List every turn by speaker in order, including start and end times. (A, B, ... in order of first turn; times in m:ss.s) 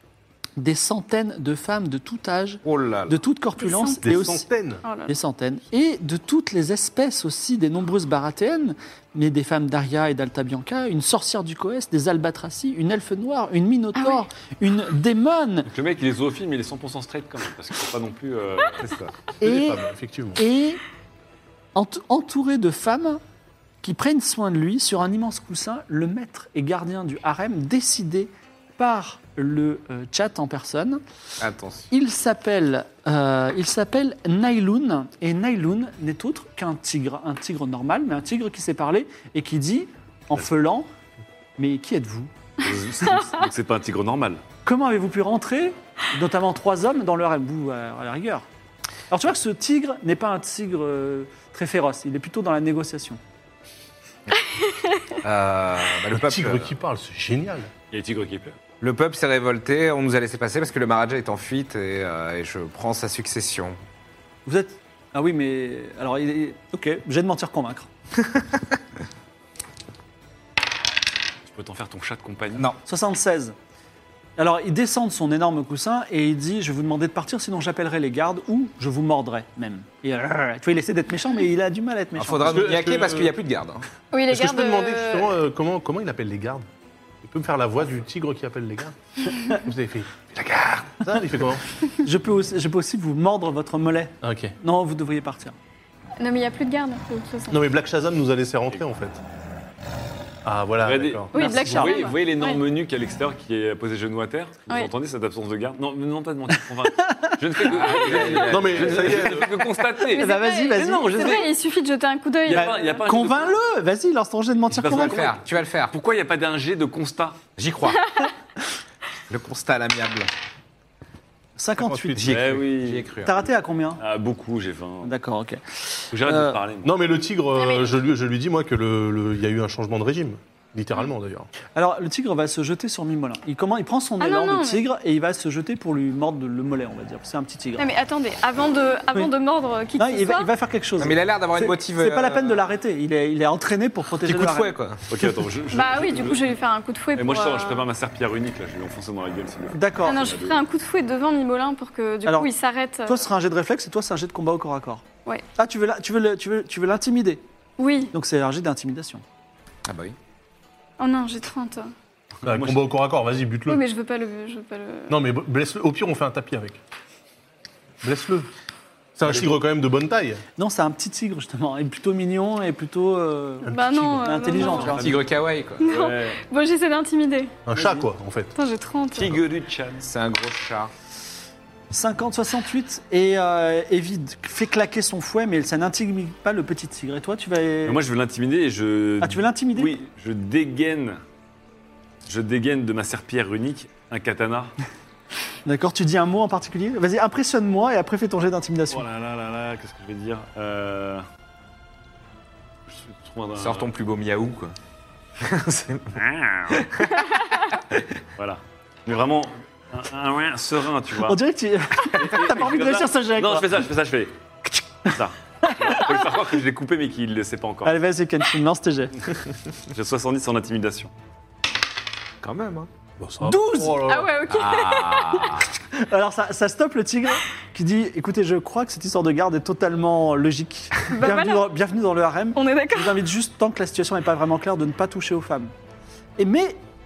0:00.6-0:04.5 A
0:02.6-0:03.2 B
0:03.6-0:04.0 C
0:04.0-0:04.8 D
0:04.8-0:05.1 C
0:05.1-0:15.7 A
0:14.0-0:14.3 C
0:15.7-0:19.0 E
0:18.8-0:19.1 B
0:19.4-0:19.8 A
0:19.4-0:20.4 D
0:20.4-0:20.8 A
0:21.8-0:23.2 A
0:23.8-0:31.0 A
0:31.4-0:31.9 B
0:31.9-0:40.9 A
0:41.6-0:42.3 A
0:42.6-0:44.4 E
0:44.6-0:48.4 A
0:49.1-0:53.2 A
0:55.2-0:56.7 B
0:56.1-0:57.7 D
0:57.9-0:58.6 E
0:58.8-1:03.8 B
1:04.5-1:07.9 A
1:11.5-1:12.7 E
1:12.8-1:13.6 A
1:14.4-1:22.7 A
1:22.2-1:23.9 B
1:22.5-1:23.4 D
1:24.1-1:25.3 C
1:24.3-1:26.7 D
1:27.2-1:31.6 D
1:32.0-1:35.6 A
1:34.2-1:34.6 D
1:36.2-1:37.7 C
1:37.5-1:39.2 D
1:40.4-1:41.4 D
1:40.8-1:51.5 E
1:41.3-1:42.6 C
1:41.4-1:42.0 A
1:47.0-1:47.4 A
1:47.6-1:49.4 B
1:48.4-1:49.6 D
1:50.1-1:53.0 C
1:50.1-1:51.5 A
1:52.4-1:53.6 E
1:52.5-1:55.4 A
1:54.8-1:55.9 B
1:54.8-1:55.3 E
1:55.9-1:57.4 E
1:57.6-1:58.1 B
1:59.3-2:00.3 B
2:01.6-2:02.2 A
2:01.8-2:02.4 D
2:02.2-2:03.5 B
2:02.3-2:03.1 E
2:03.2-2:04.0 A
2:04.0-2:05.1 E
2:05.0-2:06.6 A
2:06.1-2:06.9 E
2:06.8-2:11.5 D
2:07.6-2:08.0 C
2:11.8-2:17.9 A
2:14.2-2:14.8 C
2:17.8-2:20.5 C
2:20.0-2:24.7 A
2:21.0-2:22.6 B
2:24.3-2:25.1 B
2:25.1-2:26.6 E
2:25.7-2:27.9 C
2:27.2-2:30.6 E
2:29.7-2:30.2 A
2:30.0-2:33.3 C
2:32.3-2:32.5 A
2:33.1-2:35.0 A
2:35.6-2:37.4 A
2:37.8-2:38.1 C
2:38.1-2:39.2 A
2:39.9-2:40.2 B
2:41.0-2:41.9 C
2:42.4-2:43.8 D
2:42.5-2:42.9 E
2:43.7-2:45.1 C
2:45.1-2:46.8 D
2:48.0-2:48.5 D
2:49.2-2:50.4 D
2:49.2-2:49.5 E
2:50.6-2:55.1 A
2:53.7-2:55.0 C
2:53.7-2:54.3 D
2:54.6-2:56.4 E
2:54.9-2:55.9 B
2:55.8-2:57.6 C
2:57.7-2:58.5 D
2:57.7-2:58.1 A
2:58.6-2:59.4 C
2:59.2-3:00.1 E
3:00.0-3:00.9 B
3:01.9-3:08.0 A
3:07.8-3:11.2 E
3:09.2-3:09.9 A
3:12.3-3:14.7 E
3:15.6-3:19.0 A
3:18.9-3:21.2 E
3:22.9-3:23.9 E
3:23.6-3:24.8 B
3:25.4-3:26.2 B
3:26.1-3:26.8 E
3:26.7-3:28.0 B
3:28.4-3:31.4 E
3:31.2-3:33.9 A
3:32.1-3:38.0 E
3:35.6-3:36.1 A
3:37.8-3:39.2 A
3:39.9-3:41.1 E
3:42.4-3:42.9 B
3:43.2-3:44.4 D
3:43.4-3:44.0 A
3:44.0-3:45.6 C
3:44.5-3:45.7 B
3:45.9-3:55.7 A
3:51.1-3:51.6 C
3:52.6-3:53.2 C
3:56.4-3:56.8 A